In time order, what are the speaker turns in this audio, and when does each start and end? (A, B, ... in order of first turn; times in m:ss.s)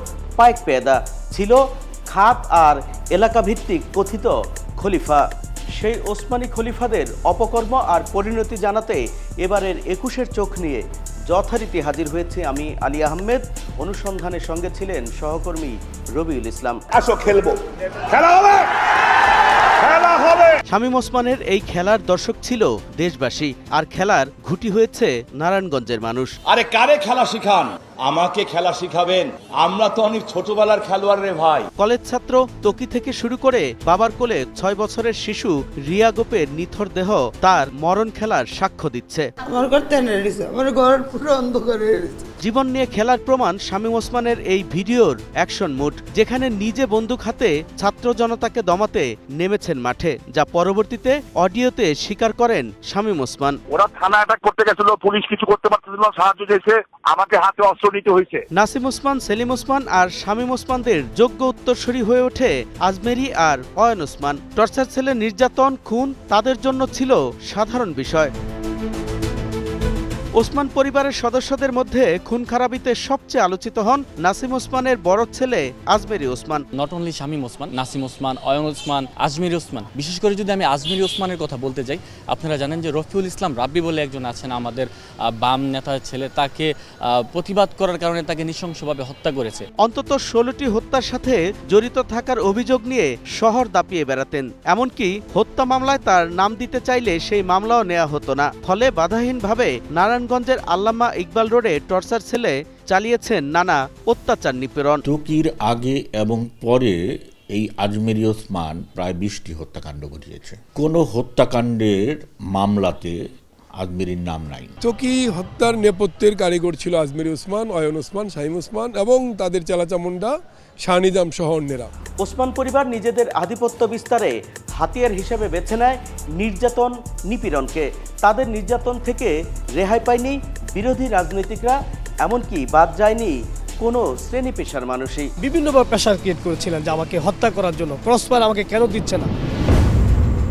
0:00.4-0:01.6 A
0:02.1-0:05.2 A
0:05.8-0:16.8 A
0:17.0-0:17.5 B
0:18.1-0:18.6 B
0:19.8-0:20.5 B
0:20.7-0:26.3 A
0:26.5-0:31.7 B
0:31.8-0:39.3 A
0:39.4-0:42.0 C
0:42.4-0:53.6 A
0:53.8-0:58.4 D
0:58.5-1:08.3 A
1:10.4-1:16.6 A
1:16.7-1:29.7 E
1:29.8-1:45.0 A
1:45.0-1:47.0 F
1:47.5-1:53.2 F
1:53.8-1:54.7 F
1:54.8-2:00.3 G
2:00.8-2:01.9 G
2:02.2-2:15.3 A
2:15.4-2:19.3 H